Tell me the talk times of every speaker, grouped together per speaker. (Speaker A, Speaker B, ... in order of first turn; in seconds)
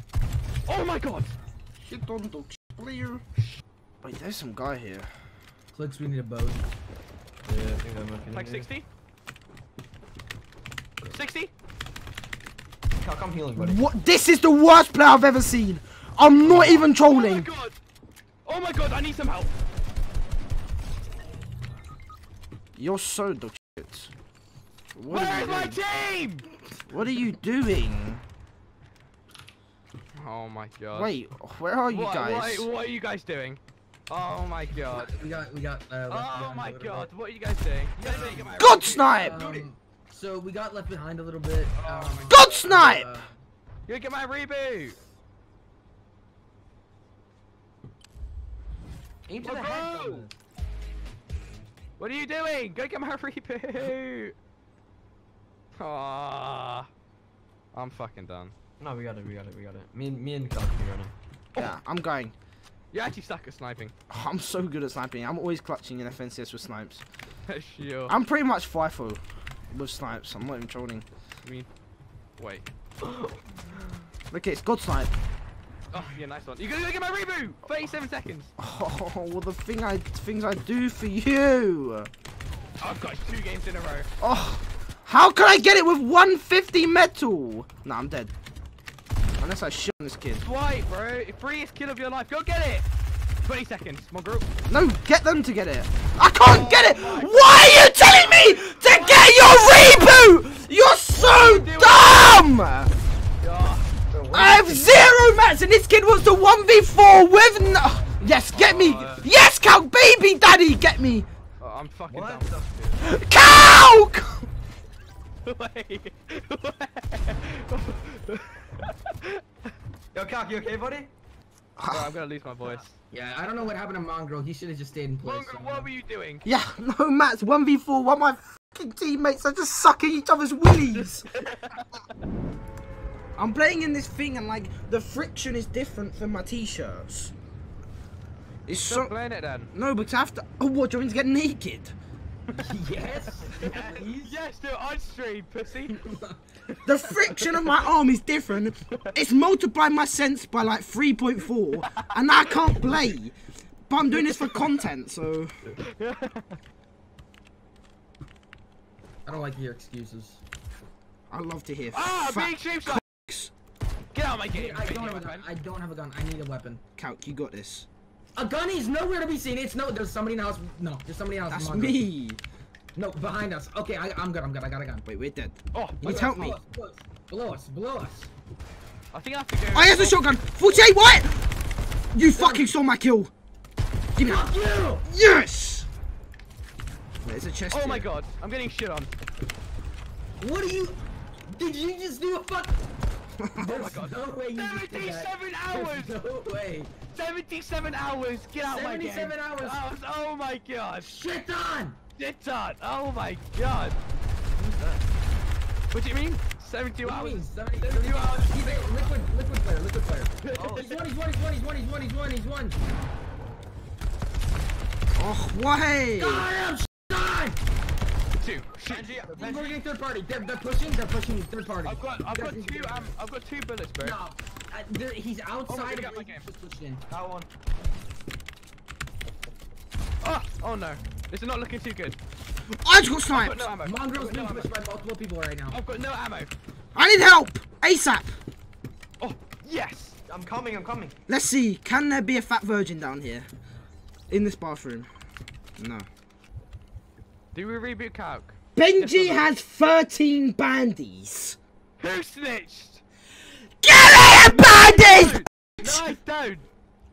Speaker A: 0.7-1.3, 8.3-8.9, 11.1-11.5, 16.4-17.8, 18.4-19.5, 25.1-26.5, 30.2-31.2, 31.9-35.1, 36.1-39.1, 41.8-42.4, 43.9-45.0, 49.4-50.3, 52.0-54.4, 55.8-56.9, 57.7-58.5, 62.9-63.9, 67.5-68.2, 72.4-72.7, 75.9-78.5, 82.8-84.1, 90.4-92.9, 93.4-94.5, 96.4-100.3, 101.1-102.4, 103.4-103.9, 108.5-109.3, 111.6-113.0, 115.5-119.4, 121.9-122.9, 125.2-126.4, 130.9-131.9, 138.7-139.7, 143.6-145.9, 151.8-152.1, 154.2-154.7, 155.8-156.6, 161.9-163.0, 164.1-165.4, 175.7-176.3, 179.1-180.3, 187.7-189.1, 193.7-196.2, 197.1-201.1, 202.2-204.0, 205.9-209.1, 210.4-210.9, 218.4-219.1, 221.8-224.2, 225.7-226.5, 230.2-232.2, 233.3-234.7, 235.7-236.5, 239.2-240.2, 247.5-249.5, 252.0-253.0, 254.3-256.7
Speaker B: 1.8-3.2, 4.0-5.1, 13.6-17.5, 22.8-24.1, 24.9-25.8, 26.9-28.2, 30.9-32.7, 38.6-39.4, 42.3-43.1, 61.6-62.3, 64.1-67.0, 68.1-71.1, 74.3-75.1, 78.6-82.1, 84.2-88.3, 89.4-90.5, 94.7-102.9, 104.3-111.3, 113.0-114.5, 121.8-122.2, 126.5-131.2, 133.4-137.3, 138.7-139.1, 139.7-141.9, 146.8-153.4, 153.9-155.5, 161.3-163.5, 167.0-167.9, 171.5-172.4, 175.1-176.6, 179.7-181.5, 182.1-183.3, 184.2-184.5, 185.1-185.9, 187.2-188.1, 193.4-193.7, 215.2-216.5, 232.7-233.7, 236.9-238.4, 241.3-243.5, 244.3-245.1, 245.8-246.1, 248.8-251.6, 253.8-255.9
Speaker C: 5.7-6.6, 34.7-37.1, 39.1-43.3, 123.1-125.9, 142.5-144.4, 145.9-146.4, 159.3-160.4, 164.5-166.8, 168.3-172.0, 172.9-175.0, 176.0-178.3, 182.3-182.7, 184.2-185.1, 190.4-192.8, 193.6-196.9, 198.6-199.8, 201.0-202.0, 207.0-212.8, 216.2-217.6, 219.3-223.1, 224.0-227.0, 233.8-235.8
Speaker D: 7.5-8.7, 13.0-13.8, 38.0-38.8, 39.4-39.6, 49.3-50.3, 58.8-61.1, 73.0-73.4, 104.1-104.9, 112.1-112.7, 120.1-121.1, 143.5-143.8, 204.5-205.0, 210.6-211.0, 218.9-219.8, 227.1-227.5, 240.3-241.2